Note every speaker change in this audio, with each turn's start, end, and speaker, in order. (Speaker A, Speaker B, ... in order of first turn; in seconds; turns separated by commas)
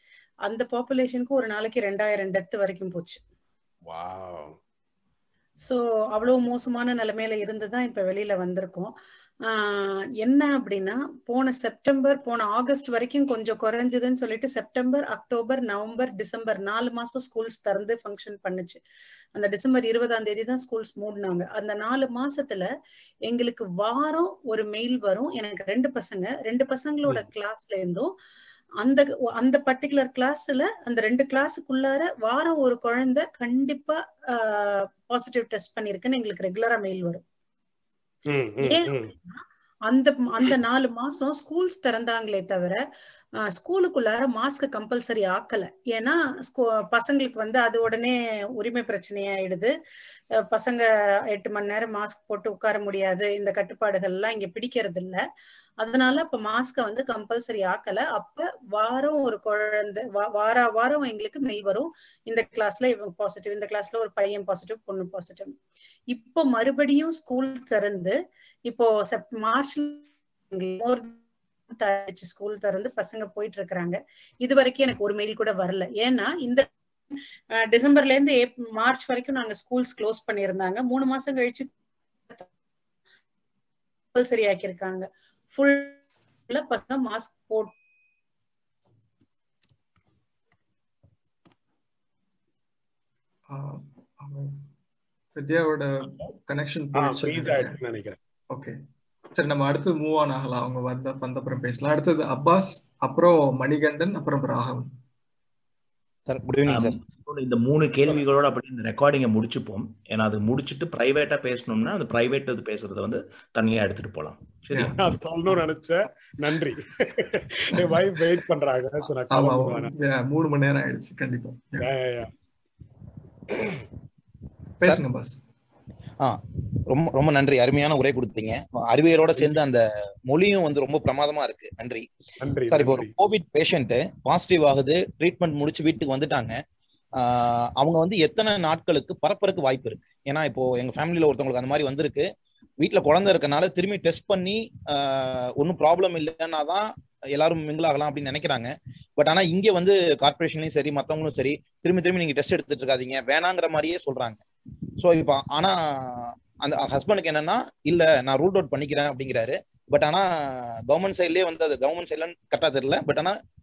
Speaker A: 0.5-3.2, Speaker B: 3.9-4.5, Speaker A: 5.6-8.9, Speaker A: 9.5-18.8, Speaker A: 19.4-22.7, Speaker A: 23.3-28.1, Speaker A: 28.8-37.2, Speaker B: 38.3-39.1, Speaker A: 38.6-42.8, Speaker A: 43.4-49.7, Speaker A: 50.4-55.2, Speaker A: 55.8-65.5, Speaker A: 66.1-71.2, Speaker A: 71.7-76.7, Speaker A: 77.6-81.7, Speaker A: 84.1-87.8, Speaker C: 93.5-94.6, Speaker C: 95.4-97.8, Speaker B: 97.0-98.2, Speaker C: 98.5-98.8, Speaker C: 99.3-104.9, Speaker D: 106.3-107.0, Speaker E: 106.7-115.0, Speaker B: 115.0-119.9, Speaker C: 119.3-121.9, Speaker B: 121.8-122.3, Speaker B: 123.5-123.8, Speaker C: 124.8-125.4, Speaker D: 126.9-132.1, Speaker B: 132.4-133.1, Speaker D: 132.7-136.5, Speaker D: 137.2-142.3, Speaker D: 142.8-154.4, Speaker D: 155.0-163.3